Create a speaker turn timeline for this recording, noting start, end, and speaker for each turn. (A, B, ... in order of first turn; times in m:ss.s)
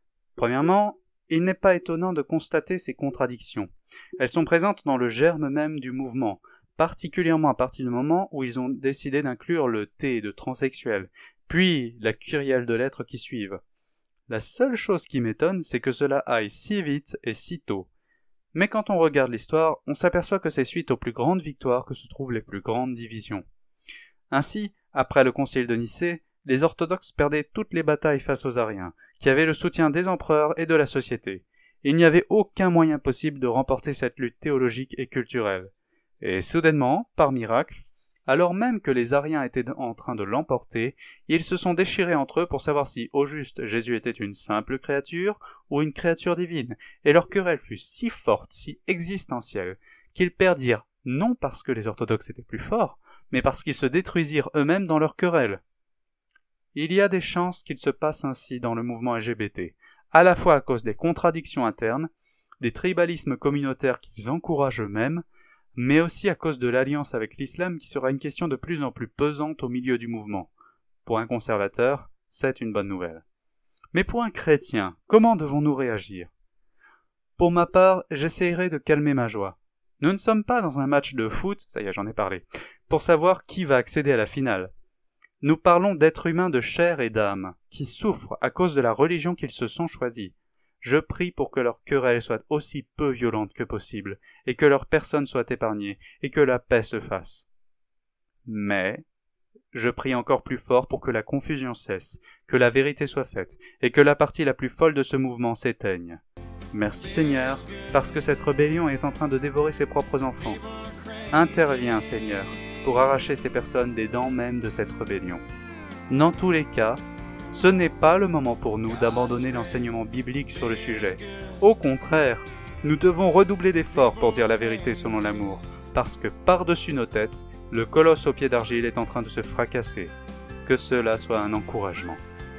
0:00.4-0:03.7 A
0:04.2-0:13.6 A
0:14.3-0:17.9 A
0:18.5-0:23.4 A
0:24.3-0:55.6 A
0:56.7-1:02.1 A
1:02.6-1:05.2 A
1:05.8-1:10.5 A
1:11.0-1:13.2 A
1:13.9-1:16.3 A
1:17.4-1:24.7 A
1:25.4-1:37.5 A
1:38.5-1:39.0 A
1:39.7-1:46.2 A
1:46.7-1:50.6 A
1:51.3-1:55.4 A
1:56.1-1:57.0 A
1:57.5-2:10.1 A
2:10.6-2:12.2 A